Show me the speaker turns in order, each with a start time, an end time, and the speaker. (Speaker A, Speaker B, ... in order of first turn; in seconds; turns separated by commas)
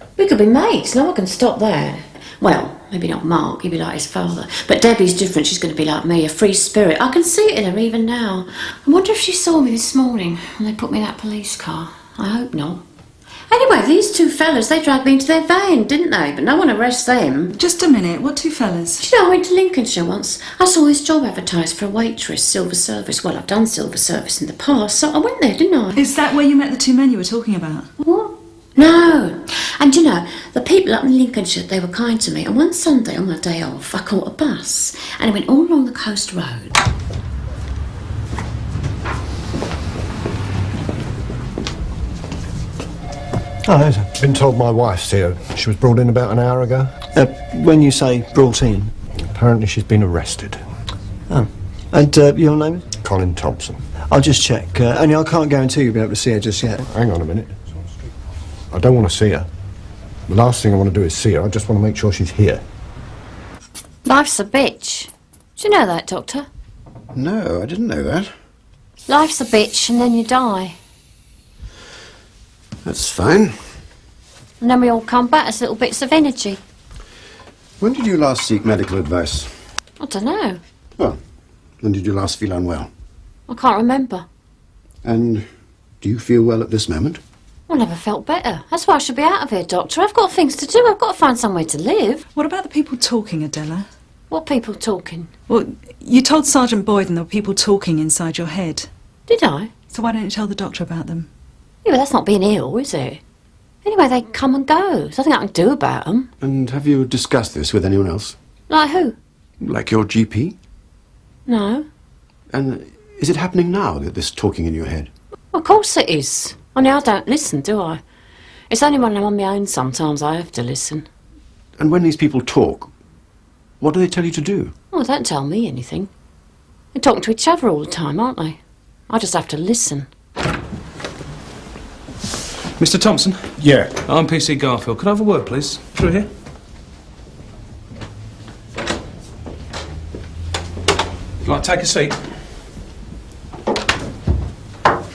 Speaker A: 0.2-12.8, Speaker A: 13.5-17.6, Speaker B: 17.6-19.1, Speaker A: 19.0-26.0, Speaker B: 25.9-27.9, Speaker A: 28.0-36.8, Speaker C: 43.7-44.0, Speaker D: 44.0-47.0, Speaker C: 47.1-48.9, Speaker D: 49.2-50.6, Speaker C: 51.3-52.9, Speaker D: 53.0-53.9, Speaker C: 54.1-56.9, Speaker D: 56.9-57.5, Speaker D: 58.7-59.5, Speaker D: 60.3-62.6, Speaker A: 64.0-66.5, Speaker E: 67.1-68.3, Speaker A: 69.1-70.8, Speaker E: 72.8-73.7, Speaker A: 74.6-76.6, Speaker E: 77.8-79.6, Speaker A: 80.0-80.6, Speaker E: 81.8-82.9, Speaker A: 83.5-84.2, Speaker E: 85.0-85.5, Speaker E: 86.0-87.2, Speaker A: 87.7-92.2, Speaker B: 92.3-93.9, Speaker A: 94.3-95.3, Speaker B: 95.5-98.9, Speaker A: 99.3-99.7, Speaker B: 99.9-101.3, Speaker A: 101.8-103.2, Speaker A: 103.8-106.3, Speaker E: 106.4-108.4, Speaker A: 108.7-109.2, Speaker E: 109.6-110.6, Speaker A: 111.5-111.9, Speaker E: 112.5-115.1, Speaker A: 115.5-118.0, Speaker A: 118.7-121.1, Speaker E: 121.8-122.9, Speaker E: 123.8-124.7, Speaker A: 124.9-126.1, Speaker A: 127.0-128.6, Speaker A: 129.1-130.1, Speaker F: 132.8-136.3, Speaker D: 133.6-134.0, Speaker F: 141.4-142.2